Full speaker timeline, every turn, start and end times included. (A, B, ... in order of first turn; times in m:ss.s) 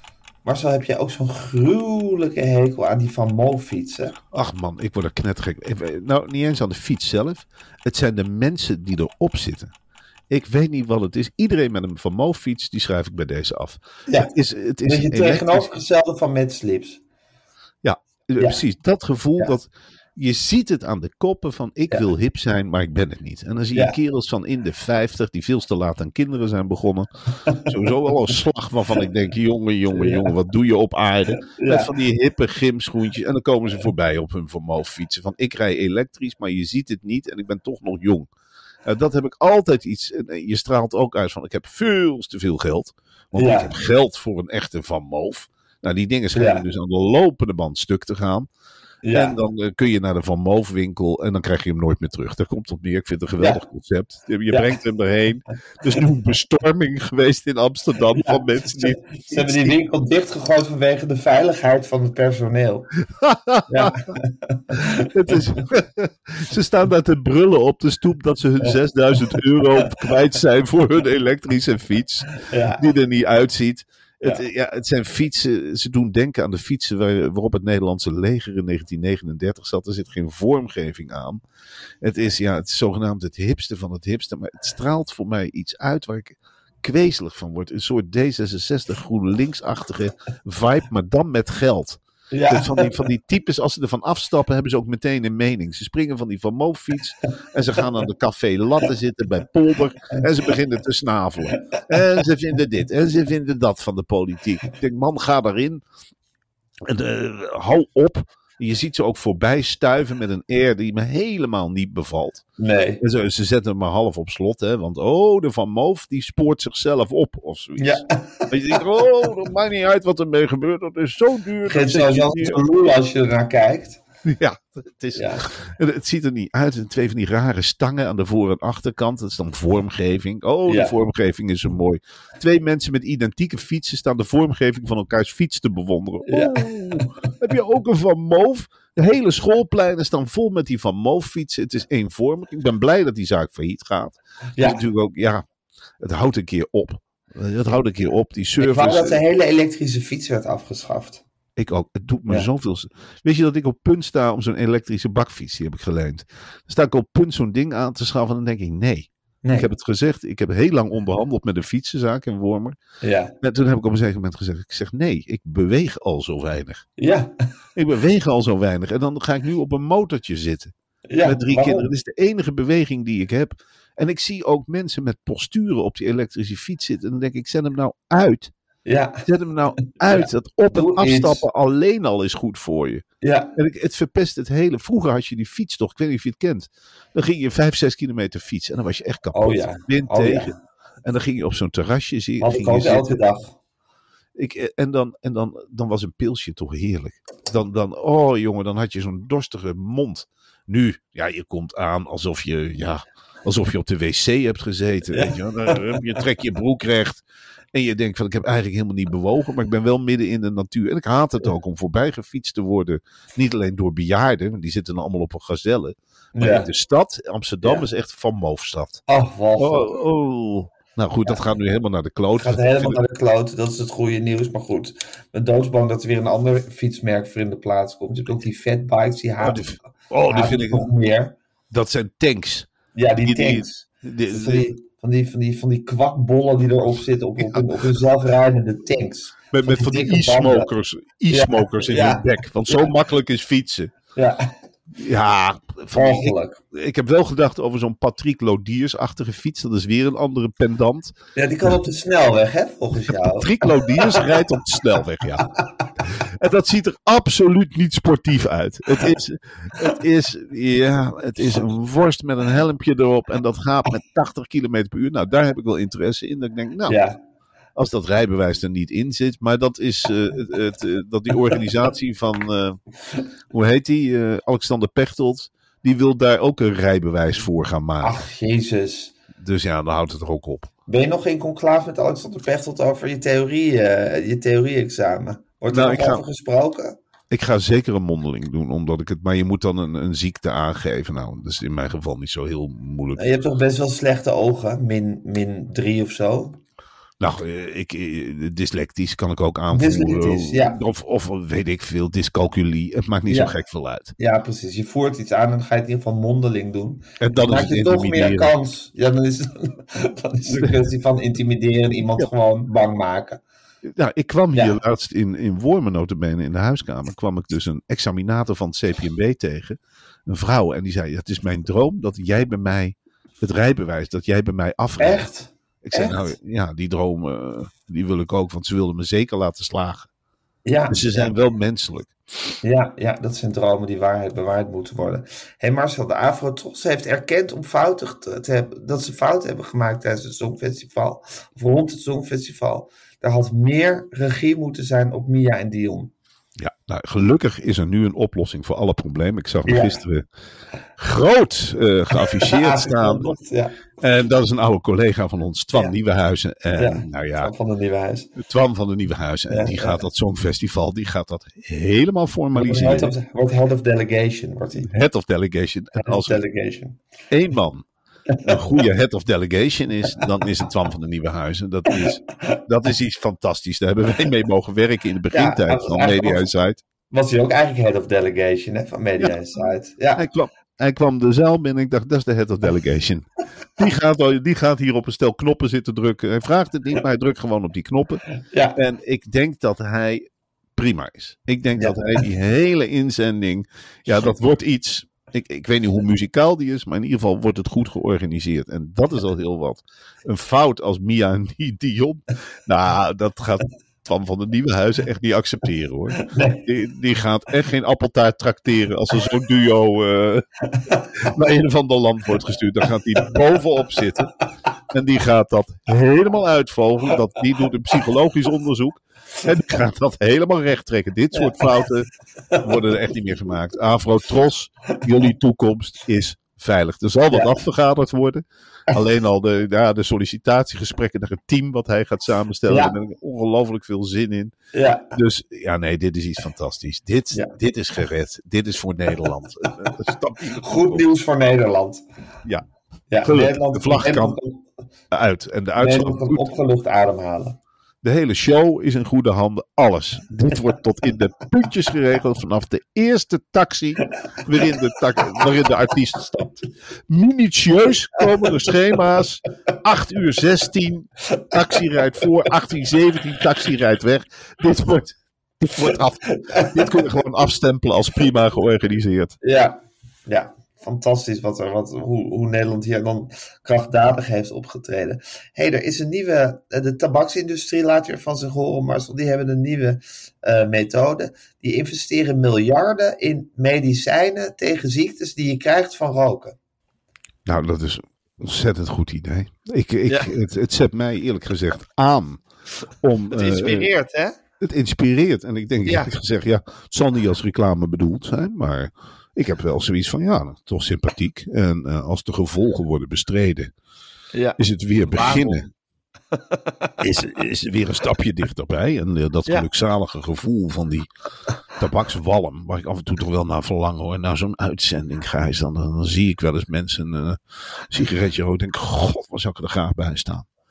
0:00.4-0:04.2 A
0:04.3-0:09.7 B
0:10.3-0:15.7 B
0:14.1-0:14.3 A
0:14.8-0:17.0 A
0:17.8-0:38.3 B
0:29.9-0:30.3 A
0:31.4-0:31.9 A
0:38.8-0:48.5 B
0:43.3-0:43.7 A
0:46.3-0:46.6 A
0:49.0-0:49.4 A
0:49.1-0:59.8 B
0:54.5-0:54.8 A
0:58.1-1:02.9 A
1:03.1-1:04.0 B
1:03.7-1:05.6 A
1:04.7-1:21.4 B
1:09.3-1:10.1 A
1:12.4-1:12.9 A
1:22.0-1:45.8 B
1:32.3-1:33.0 A
1:46.8-1:52.4 B
1:52.6-1:53.0 A
1:53.0-2:02.6 B
1:57.8-1:59.2 A
2:01.6-2:04.0 A
2:04.3-2:25.4 B
2:05.1-2:05.4 A
2:10.7-2:11.0 A
2:16.3-2:17.3 A
2:24.6-2:24.9 A
2:26.0-2:29.2 B
2:28.6-2:31.2 A
2:31.6-2:42.8 B
2:39.4-2:39.7 A
2:43.0-2:43.3 A
2:43.4-2:46.8 B
2:47.0-2:47.3 A
2:47.8-2:58.5 B
2:51.1-2:51.9 A
2:58.8-2:59.2 A
2:59.2-3:03.0 B
2:59.8-3:01.4 A
3:03.2-3:03.5 A
3:03.6-3:13.2 B
3:09.3-3:10.6 A
3:12.4-3:13.5 A
3:14.4-3:27.2 B
3:25.1-3:26.2 A
3:27.7-3:39.0 B
3:36.3-3:36.7 A
3:39.1-3:40.0 A
3:39.6-3:43.0 B
3:42.4-3:49.7 A
3:49.4-3:50.9 B
3:50.3-3:51.3 A
3:51.7-3:54.7 B
3:52.9-4:00.7 A
3:57.4-3:57.6 B
3:59.5-4:03.9 B
4:01.3-4:02.9 A
4:04.2-4:04.5 A
4:04.9-4:11.8 B
4:05.9-4:06.6 A
4:11.4-4:14.4 A
4:13.0-4:15.5 B
4:16.0-4:27.0 B
4:26.9-4:27.2 A
4:27.8-4:32.8 B
4:33.5-4:38.2 B
4:38.0-4:39.2 A
4:39.4-4:40.7 B
4:40.9-4:47.0 A
4:45.7-4:46.2 B
4:47.3-4:53.2 B
4:53.2-4:56.6 A
4:57.2-5:04.1 B
4:59.7-5:00.8 A
5:03.3-5:03.6 A
5:04.2-5:13.4 A
5:07.2-5:08.5 B
5:10.5-5:10.9 B
5:13.8-5:25.3 B
5:14.5-5:14.8 A
5:25.0-5:26.3 A
5:25.8-5:30.1 B
5:30.6-5:31.3 A
5:30.9-5:32.1 B
5:32.6-5:46.1 A
5:46.6-5:50.2 B
5:49.6-5:50.0 A
5:51.0-5:53.3 B
5:52.2-5:53.8 A
5:54.0-5:57.5 B
5:56.8-5:58.3 A
5:58.4-6:03.1 B
5:59.5-6:00.0 A
6:02.5-6:04.9 A
6:04.8-6:06.4 B
6:06.0-6:07.0 A
6:07.3-6:07.8 B
6:08.3-6:08.8 A
6:08.4-6:16.8 B
6:11.9-6:12.6 A
6:15.3-6:16.5 A
6:17.1-6:20.3 A
6:20.2-6:28.2 B
6:28.4-6:28.8 A
6:28.7-6:50.4 B
6:31.8-6:32.2 A
6:46.2-6:46.6 A
6:50.7-6:51.1 A
6:51.1-6:54.3 B
6:54.9-7:02.1 B
7:01.3-7:01.8 A
7:02.5-7:02.9 A
7:02.6-7:14.5 B
7:07.3-7:07.6 A
7:12.7-7:13.0 A
7:14.7-7:15.1 A
7:15.1-7:21.0 B
7:20.6-7:22.0 A
7:23.1-7:24.6 A
7:23.2-7:24.4 B
7:25.1-7:26.5 B
7:25.8-7:27.6 A
7:28.0-7:49.4 B
7:41.3-7:41.6 A
7:45.8-7:47.0 A
7:49.4-8:06.6 A
8:07.4-8:12.4 B
8:13.0-8:13.9 B
8:13.3-8:14.4 A
8:14.6-8:23.7 B
8:24.3-8:25.7 A
8:24.6-8:25.6 B
8:26.3-8:26.9 A
8:27.0-8:31.1 B
8:31.8-8:37.4 B
8:37.9-8:40.4 B